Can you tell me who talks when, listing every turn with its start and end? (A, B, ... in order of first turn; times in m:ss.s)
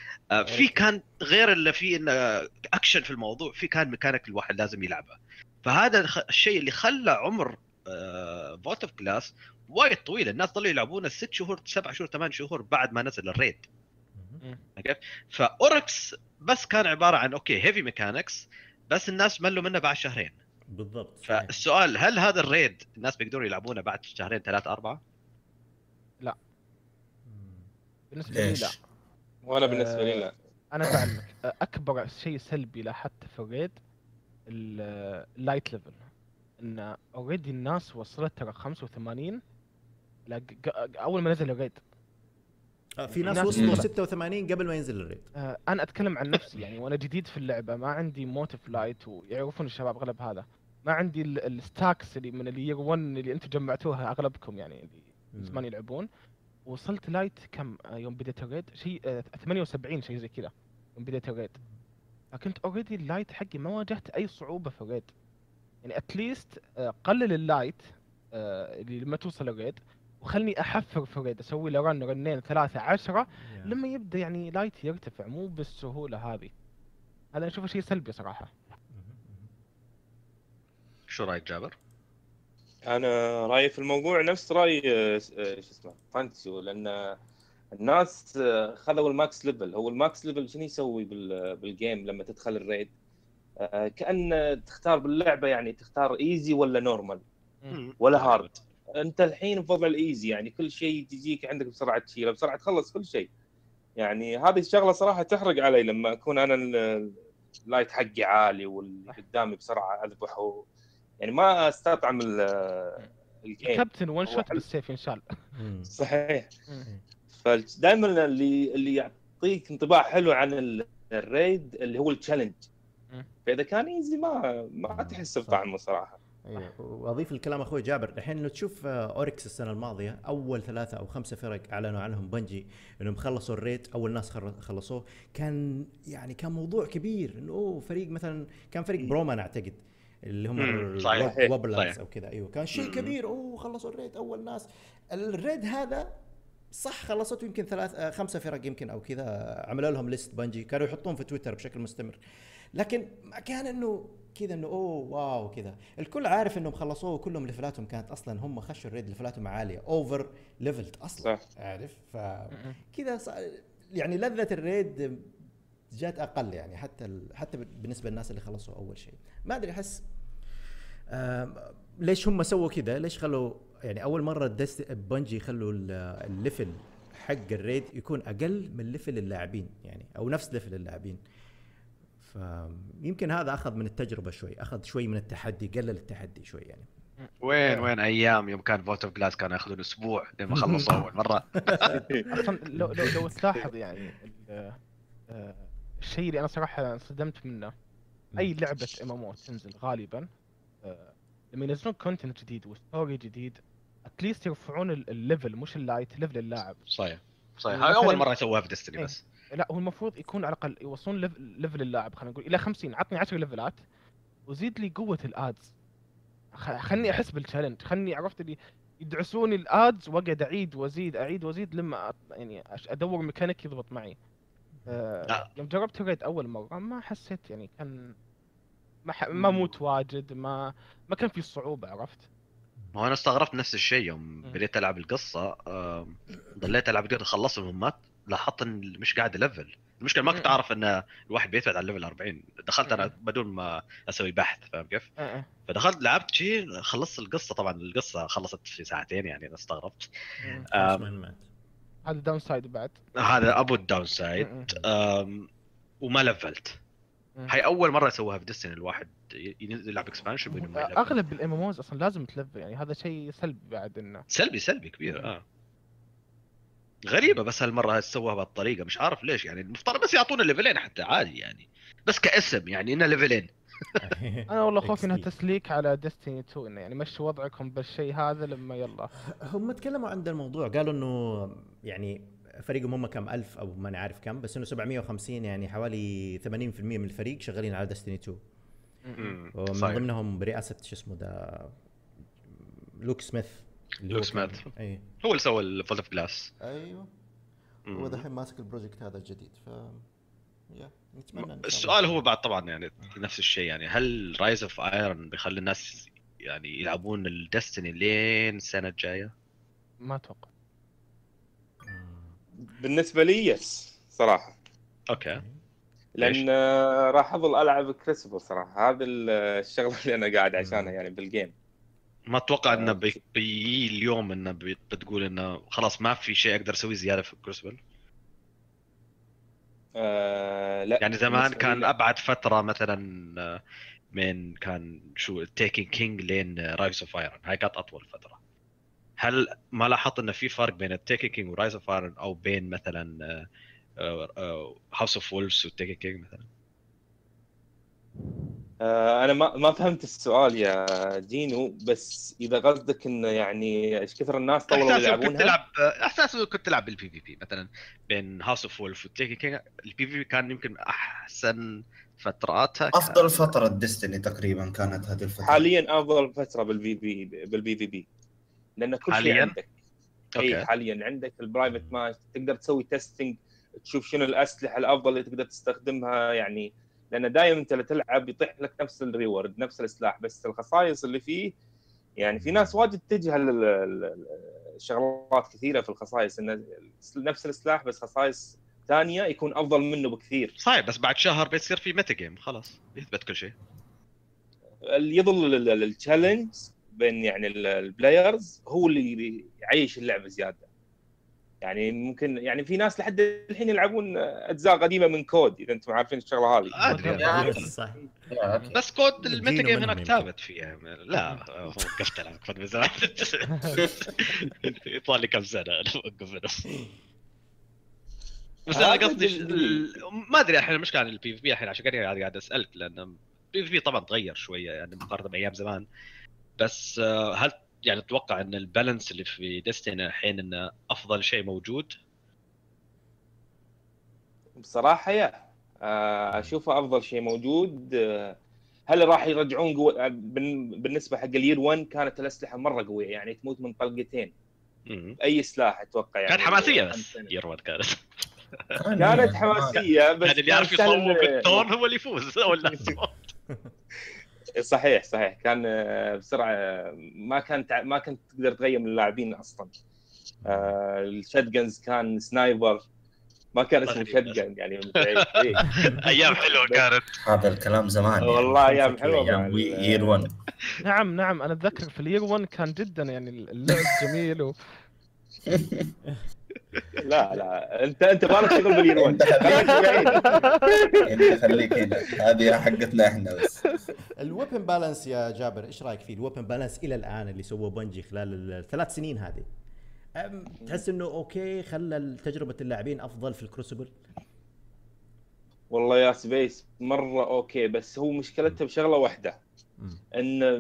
0:00.3-0:13.6 A
0:00.4-0:00.8 B
0:14.2-0:14.4 B
0:14.8-0:20.4 A
0:20.7-0:21.5 B
0:21.3-0:25.0 A
0:27.2-0:27.7 B
0:28.1-0:28.8 C
0:28.3-0:28.8 D
0:29.5-0:30.3 E
0:29.6-0:33.8 C
0:34.5-0:36.0 C
0:36.6-0:39.4 C
0:40.3-0:41.8 C
0:43.0-0:45.3 B
0:43.3-0:43.9 C
0:43.5-0:43.8 D
0:45.4-0:56.1 C
0:55.4-0:55.7 B
0:56.7-1:01.6 C
1:02.3-1:05.1 C
1:05.8-1:16.5 C
1:13.4-1:13.8 B
1:17.3-1:18.5 C
1:18.9-1:19.5 B
1:21.1-1:21.7 A
1:22.9-1:27.2 E
1:27.8-1:32.9 E
1:33.6-1:37.2 E
1:37.7-1:38.5 A
1:38.0-1:43.3 E
1:44.0-1:47.2 E
1:47.7-1:50.6 E
1:51.2-1:54.6 E
1:53.6-1:55.4 C
1:55.6-1:55.9 B
1:55.9-1:56.5 E
1:57.4-2:02.7 E
2:03.5-2:06.2 E
2:04.9-2:05.6 B
2:06.4-2:26.1 B
2:20.6-2:21.9 A
2:21.2-2:21.5 E
2:22.8-2:23.1 A
2:26.8-2:32.2 B
2:32.8-2:45.3 B
2:45.9-2:50.0 B
2:51.1-3:01.2 B
3:02.2-3:06.9 B
3:07.2-3:07.9 C
3:07.4-3:11.8 A
3:10.5-3:11.0 B
3:11.7-3:13.2 B
3:11.8-3:12.3 E
3:12.3-3:14.8 C
3:15.3-3:17.7 C
3:18.4-3:20.3 C
3:20.8-3:26.8 C
3:26.9-3:29.2 A
3:27.7-3:28.2 C
3:29.0-3:33.8 C
3:34.5-3:35.7 C
3:36.6-3:44.2 C
3:36.9-3:37.2 B
3:44.9-3:48.2 C
3:49.1-3:52.2 C
3:52.9-4:05.1 A
4:00.3-4:00.6 C
4:02.8-4:03.1 C
4:05.2-4:05.5 C
4:05.7-4:10.2 A
4:10.4-4:11.4 B
4:10.7-4:11.1 A
4:12.0-4:13.0 C
4:13.2-4:15.5 A
4:14.4-4:14.7 C
4:16.0-4:16.8 A
4:17.5-4:21.2 A
4:20.8-4:24.2 C
4:24.3-4:25.4 A
4:25.1-4:25.3 C
4:27.1-4:34.0 A
4:34.0-4:35.3 B
4:34.5-4:39.1 C
4:39.3-4:48.4 B
4:49.0-4:49.4 C
4:49.2-4:50.0 A
4:49.5-4:51.8 B
4:52.5-4:55.1 B
4:54.1-4:54.7 A
4:55.2-4:56.5 A
4:56.6-4:57.1 B
4:57.9-4:58.2 A
4:57.9-5:00.0 B
5:00.7-5:02.2 B
5:01.4-5:09.3 A
5:10.0-5:10.5 C
5:11.8-5:12.4 B
5:12.8-5:14.6 E
5:15.1-5:15.4 A
5:15.2-5:15.6 B
5:16.2-5:21.5 E
5:20.6-5:20.9 B
5:22.3-5:27.8 A
5:22.7-5:23.1 E
5:30.0-5:31.9 E
5:31.0-5:33.6 A
5:34.1-5:38.4 A
5:39.2-5:43.5 A
5:44.0-5:46.5 A
5:48.8-5:55.6 E
5:54.7-6:03.5 A
6:02.9-6:05.7 D
6:05.4-6:08.1 E
6:08.8-6:09.7 E
6:09.1-6:09.6 A
6:10.4-6:10.7 A
6:10.4-6:21.5 E
6:11.7-6:12.0 B
6:22.2-6:30.5 E
6:22.4-6:22.7 B
6:30.6-6:33.6 A
6:34.9-6:40.6 E
6:41.6-6:46.8 E
6:46.8-6:47.6 A
6:46.8-6:47.7 C
6:47.0-6:48.1 B
6:47.2-6:47.6 D
6:48.3-6:48.7 D
6:48.8-6:56.7 A
6:49.2-6:50.3 B
6:58.7-7:05.8 A
6:58.7-6:59.9 E
7:06.6-7:11.9 A
7:14.6-7:15.3 E
7:15.8-7:18.3 E
7:18.9-7:24.3 E
7:24.9-7:25.2 A
7:25.2-7:27.3 E
7:26.3-7:28.7 A
7:28.8-7:29.8 D
7:29.0-7:31.7 E
7:29.8-7:33.2 A
7:32.6-7:32.9 E
7:32.9-7:33.7 B
7:34.6-7:39.7 E
7:40.4-7:40.8 B
7:40.4-7:42.8 E
7:43.6-7:46.9 E
7:43.8-7:44.4 A
7:45.0-7:47.1 A
7:47.2-7:50.3 D
7:48.2-7:50.3 E
7:50.8-7:54.6 C
7:55.5-7:55.9 D
7:57.0-8:01.1 E
7:58.9-8:00.4 D
7:59.5-8:01.7 C
8:01.0-8:03.6 D
8:04.2-8:09.5 B
8:10.2-8:14.0 B
8:15.7-8:19.4 E
8:20.2-8:20.5 E